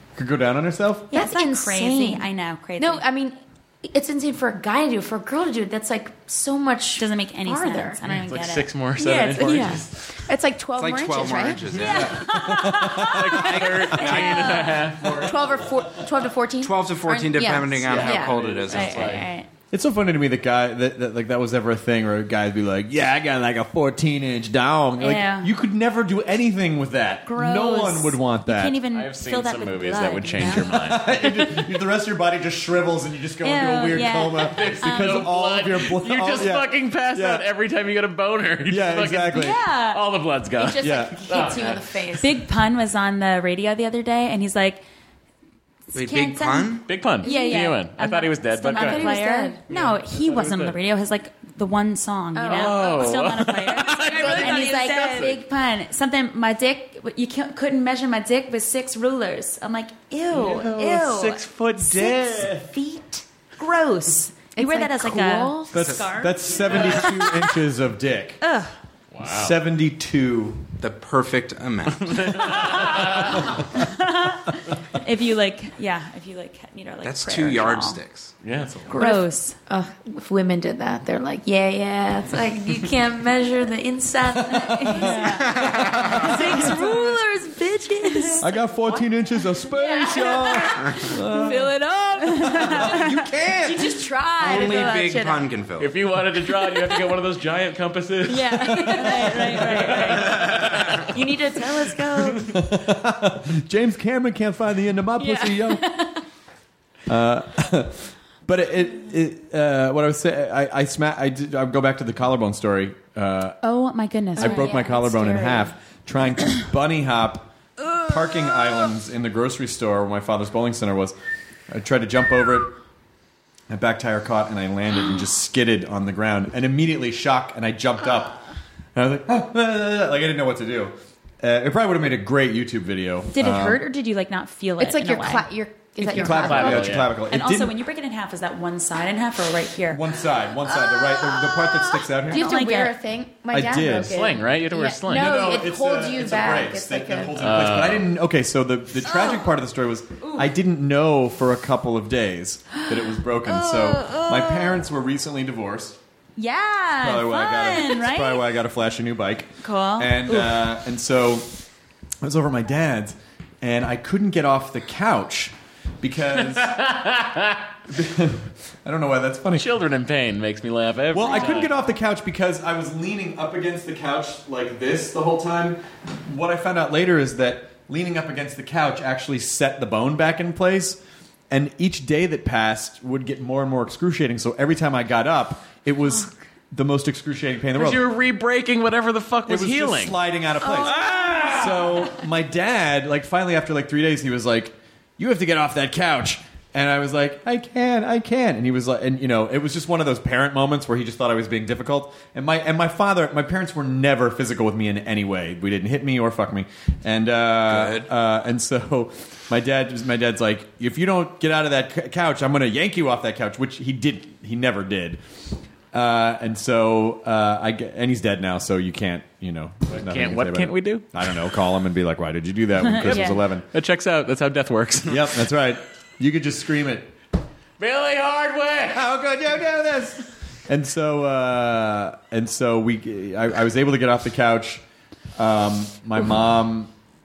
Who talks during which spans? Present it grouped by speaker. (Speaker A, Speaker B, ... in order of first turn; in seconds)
Speaker A: 0.2-1.1, 11.9-13.9, 19.7-28.8, 30.4-37.4, 38.7-39.6, 40.8-41.5, 60.4-62.0, 65.7-68.4, 69.2-70.7, 84.3-85.3, 86.4-87.0, 88.4-91.8, 92.5-94.0, 102.4-105.9, 107.1-113.6, 114.4-121.2, 121.7-122.7, 123.7-128.3, 128.9-133.9, 136.1-137.7, 139.9-142.6, 143.5-144.2, 145.1-156.0, 157.0-161.5, 162.2-166.8, 167.9-169.7, 171.1-188.2, 189.5-215.2, 215.9-223.7, 225.1-227.1, 228.9-234.8, 235.4-236.9
Speaker B: 1.1-2.3, 2.8-8.0, 9.0-11.6, 14.0-18.3, 40.6-42.5, 47.2-47.7, 48.7-49.6, 52.4-53.1, 53.7-55.4, 64.6-66.0, 78.9-89.0, 89.7-93.1, 93.6-95.5, 98.3-102.4, 105.2-106.2, 114.4-115.7, 134.8-136.9, 142.2-147.6, 190.6-191.6
Speaker C: 1.1-3.1, 7.0-8.7, 9.4-9.8, 11.8-14.8, 18.7-19.5, 25.0-25.5, 27.3-31.0, 33.4-35.3, 39.3-40.0, 42.2-44.8, 45.9-67.5, 68.4-68.7, 73.7-78.0, 78.9-79.6, 84.8-87.2, 88.1-88.4, 92.3-93.2, 98.9-100.5, 113.6-114.8, 133.3-135.5, 136.0-140.1, 142.3-142.9, 149.1-149.4, 153.5-154.8, 156.4-158.5, 159.6-160.6, 223.0-223.4
Speaker D: 8.1-10.0, 13.0-15.6, 17.9-19.3, 28.9-31.2, 34.4-41.8, 46.9-49.1, 49.7-50.8, 52.5-55.4, 60.3-62.6, 66.6-67.0, 69.1-69.6, 72.0-73.5, 78.4-78.9, 95.8-101.0, 136.3-137.1, 144.1-145.6, 147.4-148.1, 166.6-167.6, 169.6-171.7, 187.7-190.2, 190.9-192.0, 219.9-221.3, 223.0-225.5, 227.8-229.1
Speaker E: 10.8-12.1, 16.6-19.1, 45.9-46.9, 70.8-72.5, 77.0-78.4, 85.4-86.1, 94.4-96.0, 207.7-208.1